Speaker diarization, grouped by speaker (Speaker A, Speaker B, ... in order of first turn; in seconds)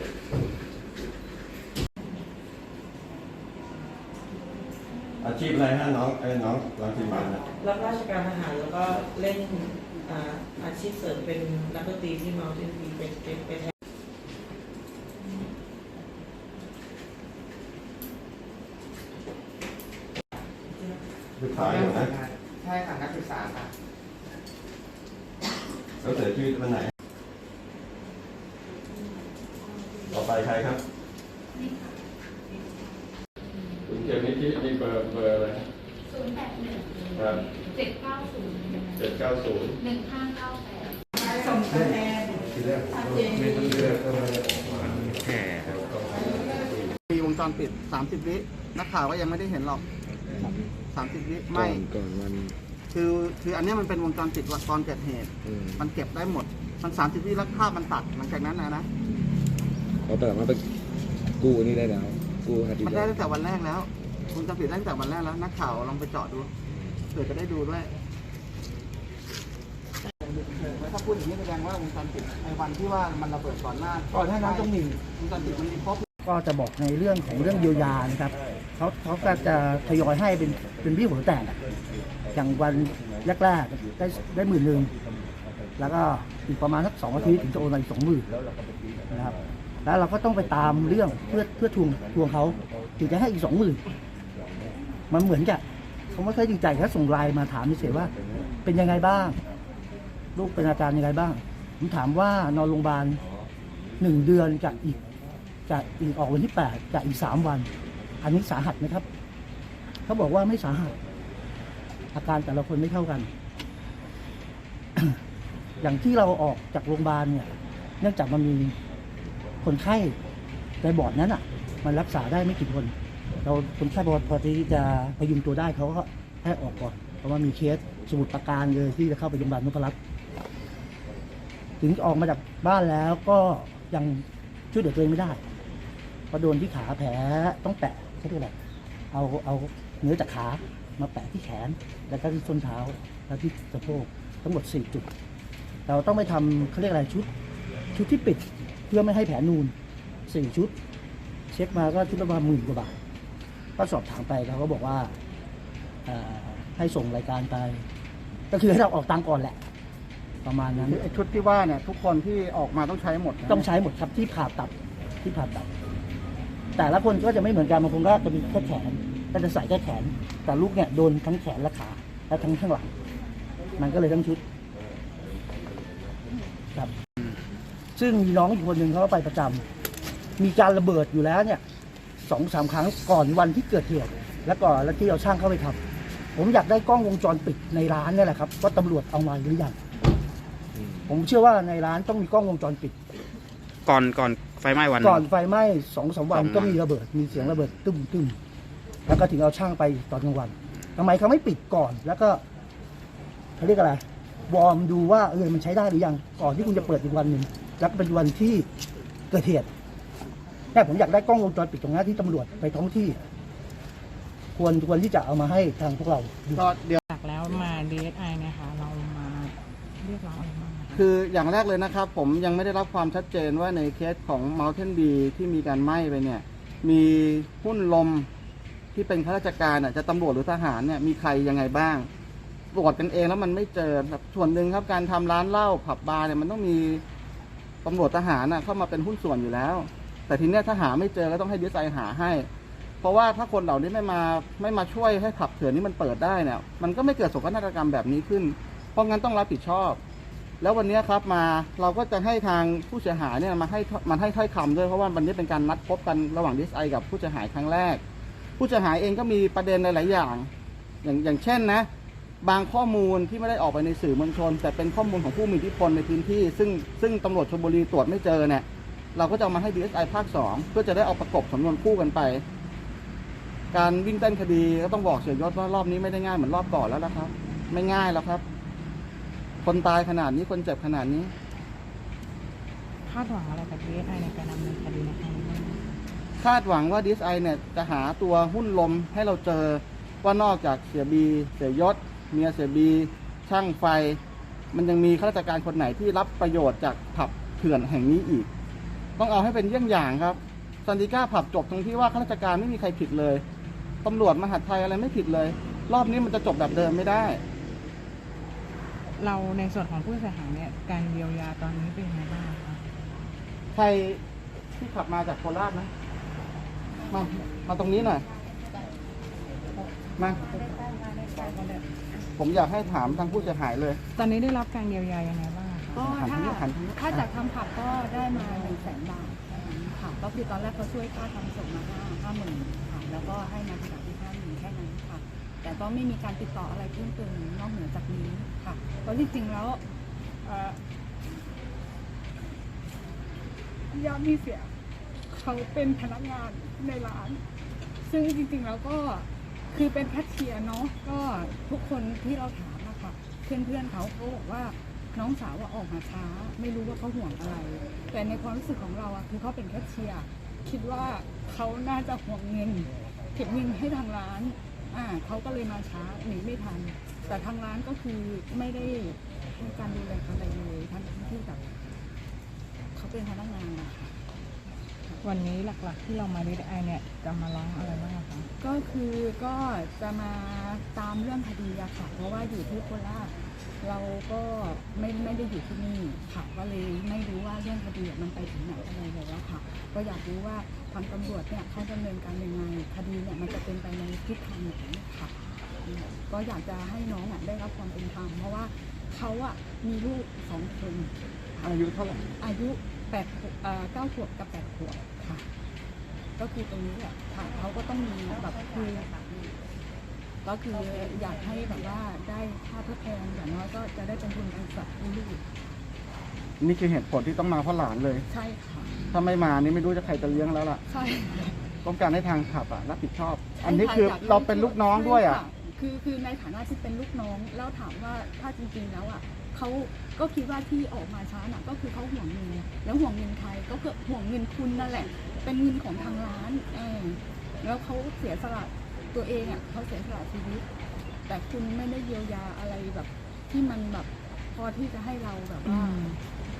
Speaker A: 5.2-7.5, 21.4-22.1, 26.0-26.9, 30.1-30.8, 33.9-35.6, 37.1-37.5, 39.0-39.8, 42.6-46.8
Speaker B: 7.5-13.7
Speaker C: 31.6-31.9, 36.1-37.2, 37.7-39.0, 39.8-41.9
Speaker D: 43.3-44.4, 51.5-52.6, 55.5-55.9, 60.1-60.6, 61.4-63.1
Speaker E: 45.4-45.8, 193.9-195.2, 196.3-196.8, 197.3-197.7
Speaker F: 47.1-49.9, 50.9-51.8, 52.9-58.9, 62.8-66.5, 67.1-67.9, 70.3-76.0, 160.8-163.7, 216.6-217.0, 220.9-228.3, 228.9-232.1, 232.7-237.0, 237.8-242.5, 243.0-250.0, 250.6-258.0, 258.6-260.5, 261.0-261.9, 262.4-272.4, 273.7-278.4, 279.6-281.3, 286.4-294.2, 294.7-298.5, 299.2-303.4, 304.0-307.4, 313.7-314.2, 314.8-315.9, 317.1-318.2, 320.2-320.5, 322.4-324.0, 326.0-327.2, 401.6-402.3, 416.6-418.2, 419.1-420.8, 421.8-425.4
Speaker G: 74.1-75.0, 76.2-81.6, 82.3-84.9, 85.8-88.3, 89.1-93.8, 95.1-98.1, 98.6-99.4, 100.4-103.2, 104.0-105.0, 105.7-107.7, 108.2-109.0, 110.1-110.9, 112.1-113.3, 115.8-117.5, 118.0-118.8, 119.6-120.2, 120.8-130.0, 131.8-135.4, 136.3-138.5, 139.1-145.1, 145.9-147.3, 147.9-149.7, 150.3-150.7, 151.5-153.0, 153.8-155.1, 156.1-157.8, 158.5-159.6, 160.4-161.0, 163.5-164.7, 165.2-165.7, 166.8-172.9, 173.8-174.4, 178.0-179.6, 180.4-181.6, 182.2-185.8, 186.4-189.8, 191.1-192.9, 195.0-198.4, 199.1-202.4, 203.6-208.7, 209.3-209.7, 210.7-213.2, 214.6-216.7
Speaker H: 217.1-221.1, 283.1-285.8, 309.2-312.9, 319.7-322.3, 324.1-326.0, 375.2-378.5, 445.7-446.2
Speaker I: 326.0-339.8, 340.4-340.8, 343.9-344.7, 345.3-347.4, 348.0-371.8, 372.9-374.1, 378.6-401.1, 402.4-405.5, 406.4-409.5, 410.4-415.4, 418.3-418.9, 420.9-421.6, 423.6-440.6, 441.3-446.1